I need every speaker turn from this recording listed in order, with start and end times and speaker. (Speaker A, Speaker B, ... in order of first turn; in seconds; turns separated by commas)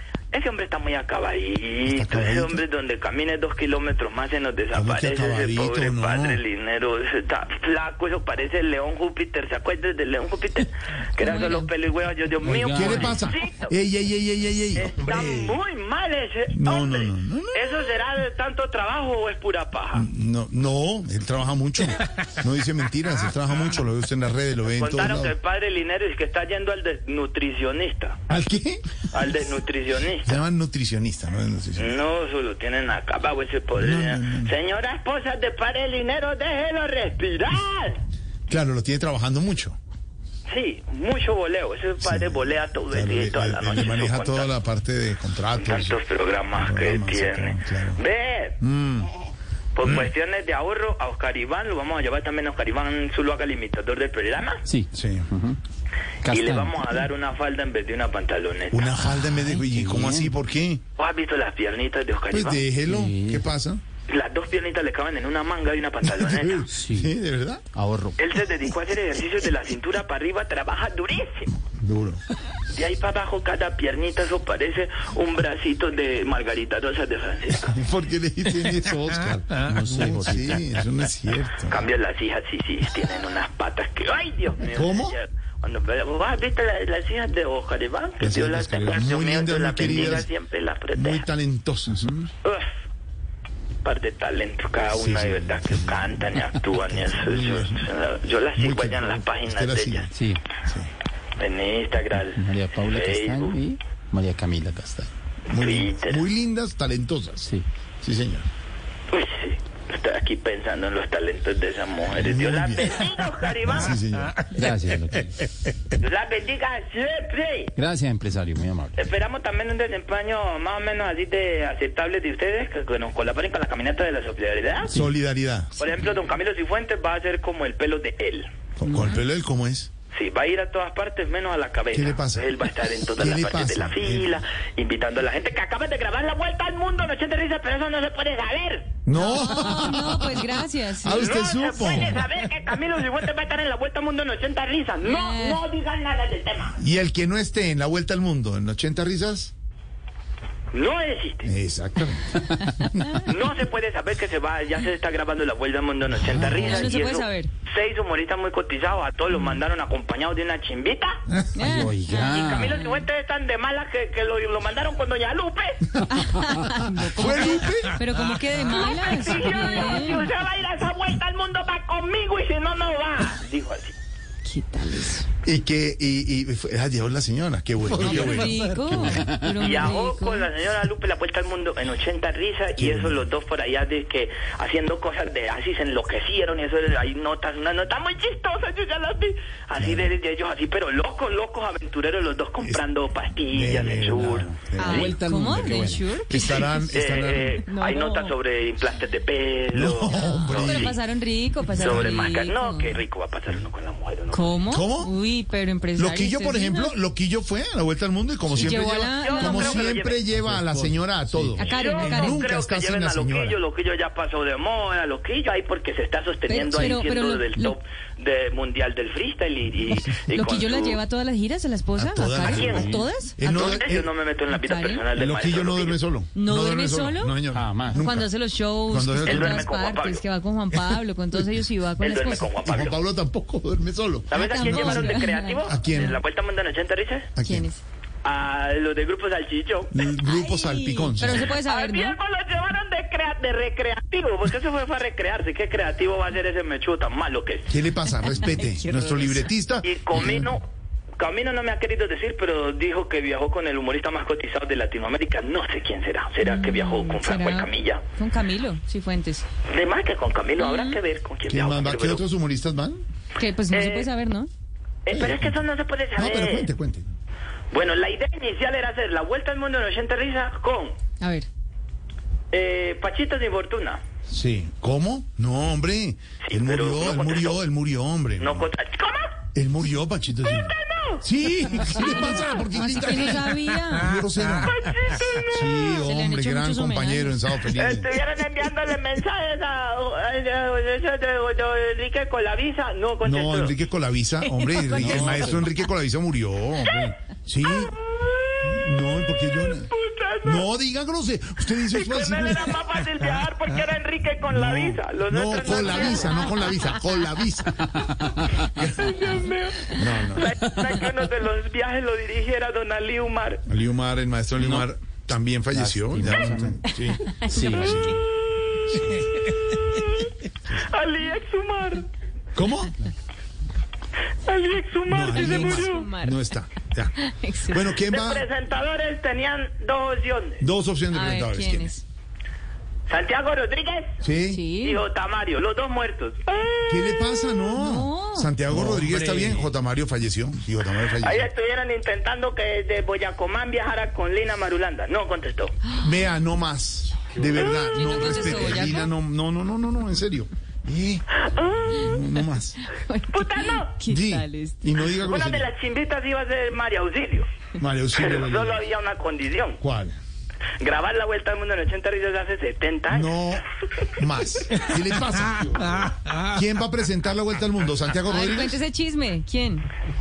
Speaker A: 0.3-13.7, Speaker B: 1.8-2.6, Speaker B: 4.7-6.4, Speaker C: 11.2-11.7, Speaker D: 12.4-13.2, Speaker B: 12.6-15.6, Speaker A: 14.7-20.1, Speaker B: 16.5-17.7, Speaker B: 19.9-25.3, Speaker A: 24.7-28.2, Speaker B: 28.3-28.8, Speaker A: 29.1-30.4, Speaker B: 30.2-31.9, Speaker A: 31.8-38.0, Speaker B: 33.8-34.5, Speaker B: 38.5-39.8, Speaker A: 40.5-44.5, Speaker B: 42.0-46.0, Speaker A: 45.6-48.5, Speaker B: 46.5-48.0, Speaker B: 48.6-49.1, Speaker A: 49.7-54.6, Speaker D: 54.6-55.6, Speaker B: 54.9-55.3, Speaker D: 56.2-57.0, Speaker A: 56.3-59.0, Speaker B: 58.7-60.8, Speaker D: 59.1-60.3, Speaker A: 61.0-62.6, Speaker B: 62.3-63.8, Speaker D: 62.9-63.4, Speaker A: 64.1-66.7, Speaker B: 66.0-67.6, Speaker D: 66.8-67.1, Speaker D: 67.7-68.2, Speaker A: 68.2-71.5, Speaker B: 71.8-72.2, Speaker A: 72.7-77.8, Speaker B: 77.7-81.8, Speaker D: 79.6-80.7, Speaker A: 81.7-91.2, Speaker B: 84.6-85.2, Speaker B: 88.2-90.3, Speaker B: 90.9-92.2, Speaker A: 92.4-92.7, Speaker A: 93.8-100.1, Speaker B: 94.9-97.9, Speaker B: 98.5-100.1, Speaker D: 100.1-100.4, Speaker B: 100.6-100.9, Speaker A: 101.4-103.6, Speaker D: 102.3-105.1, Speaker A: 105.5-106.2, Speaker B: 105.5-107.5, Speaker B: 108.0-108.5, Speaker A: 109.1-113.9, Speaker B: 112.1-113.1, Speaker B: 113.6-114.6, Speaker D: 114.5-115.4, Speaker A: 115.9-117.7, Speaker D: 117.8-118.9, Speaker A: 119.0-124.9, Speaker B: 124.9-125.7, Speaker A: 125.8-128.5, Speaker B: 128.8-129.9, Speaker A: 130.1-139.0, Speaker B: 131.9-132.5, Speaker B: 133.2-134.4, Speaker B: 139.1-142.3, Speaker C: 139.1-141.4, Speaker A: 141.1-146.8, Speaker C: 145.0-145.6, Speaker B: 146.8-149.5, Speaker A: 150.7-151.5, Speaker B: 151.4-152.4, Speaker A: 153.1-161.2, Speaker B: 156.3-156.6, Speaker C: 156.5-157.5, Speaker C: 161.5-162.0, Speaker D: 161.6-162.8, Speaker A: 162.1-166.0, Speaker C: 166.1-170.2, Speaker B: 167.0-168.0, Speaker A: 168.6-173.9, Speaker C: 174.4-175.2, Speaker B: 175.4-179.3, Speaker C: 178.0-180.5, Speaker A: 179.6-194.5, Speaker B: 182.8-183.2, Speaker B: 189.8-190.1, Speaker B: 193.5-195.2, Speaker D: 194.0-196.1, Speaker C: 194.7-196.9, Speaker B: 196.3-197.6, Speaker A: 196.9-200.9, Speaker C: 197.6-198.3, Speaker B: 199.7-201.0, Speaker C: 200.1-203.0, Speaker A: 201.7-204.7, Speaker C: 204.3-206.9, Speaker B: 204.7-205.1, Speaker B: 205.9-213.6, Speaker C: 208.6-209.9, Speaker A: 209.1-210.2, Speaker D: 210.3-211.7, Speaker C: 211.6-212.4, Speaker A: 211.7-221.0, Speaker C: 216.4-217.8, Speaker C: 220.1-223.4, Speaker B: 221.9-224.1, Speaker A: 222.4-226.0, Speaker D: 222.6-223.0, Speaker C: 224.5-225.0, Speaker B: 225.1-229.7, Speaker C: 226.3-227.4, Speaker D: 227.5-228.0, Speaker C: 227.9-232.5, Speaker A: 229.2-230.2, Speaker A: 232.0-233.0, Speaker B: 232.6-236.2, Speaker A: 234.3-237.3, Speaker C: 234.3-235.6, Speaker B: 237.3-237.7, Speaker C: 237.4-237.8, Speaker A: 238.2-239.9, Speaker B: 239.9-241.6, Speaker C: 240.2-242.2, Speaker A: 241.4-247.7, Speaker B: 247.7-250.5, Speaker C: 248.2-249.5, Speaker A: 249.8-250.6, Speaker A: 251.2-258.0, Speaker C: 256.4-259.4, Speaker A: 259.7-262.2, Speaker C: 260.6-261.0, Speaker B: 261.5-263.0, Speaker C: 263.3-264.5, Speaker A: 263.7-264.1, Speaker A: 265.0-266.7, Speaker B: 265.1-265.5, Speaker B: 266.1-267.1, Speaker A: 267.7-270.9, Speaker C: 271.2-271.5, Speaker A: 272.5-274.0, Speaker B: 274.3-278.6, Speaker A: 276.4-277.6, Speaker A: 278.4-279.4, Speaker B: 279.5-284.8, Speaker A: 280.4-281.2, Speaker C: 281.9-284.1, Speaker A: 284.6-286.0, Speaker B: 285.4-288.1, Speaker C: 285.9-287.4, Speaker A: 287.7-293.7, Speaker B: 293.2-298.0, Speaker C: 294.4-295.7, Speaker D: 295.0-295.5, Speaker A: 296.9-297.1, Speaker A: 297.6-300.6, Speaker B: 298.6-299.9, Speaker B: 300.4-302.8, Speaker A: 301.8-306.5, Speaker B: 304.5-307.9, Speaker D: 307.9-308.3, Speaker B: 308.6-309.3, Speaker A: 308.9-313.6, Speaker B: 309.9-310.6, Speaker B: 313.7-318.2, Speaker D: 314.6-314.9, Speaker D: 315.7-318.0, Speaker C: 317.1-318.1, Speaker A: 318.7-322.1, Speaker B: 322.5-322.9, Speaker A: 324.4-326.1, Speaker B: 325.1-327.1, Speaker C: 325.3-326.4, Speaker C: 327.1-327.9, Speaker B: 327.7-328.4, Speaker A: 328.1-330.6, Speaker B: 330.6-331.9, Speaker C: 331.1-332.0, Speaker A: 333.1-334.1, Speaker B: 334.2-334.6, Speaker C: 334.5-335.0, Speaker A: 334.8-337.4, Speaker B: 336.9-341.5, Speaker C: 337.6-338.5, Speaker D: 338.7-339.7, Speaker A: 341.2-345.7, Speaker B: 346.0-351.2, Speaker C: 347.4-349.1, Speaker A: 351.4-352.1, Speaker B: 351.9-352.8, Speaker C: 352.9-354.8, Speaker A: 353.3-353.9, Speaker B: 354.1-355.7, Speaker A: 355.1-357.5, Speaker B: 357.8-358.8, Speaker A: 358.1-359.8, Speaker B: 359.8-360.1, Speaker A: 360.8-363.4, Speaker B: 363.1-368.8, Speaker C: 368.3-369.9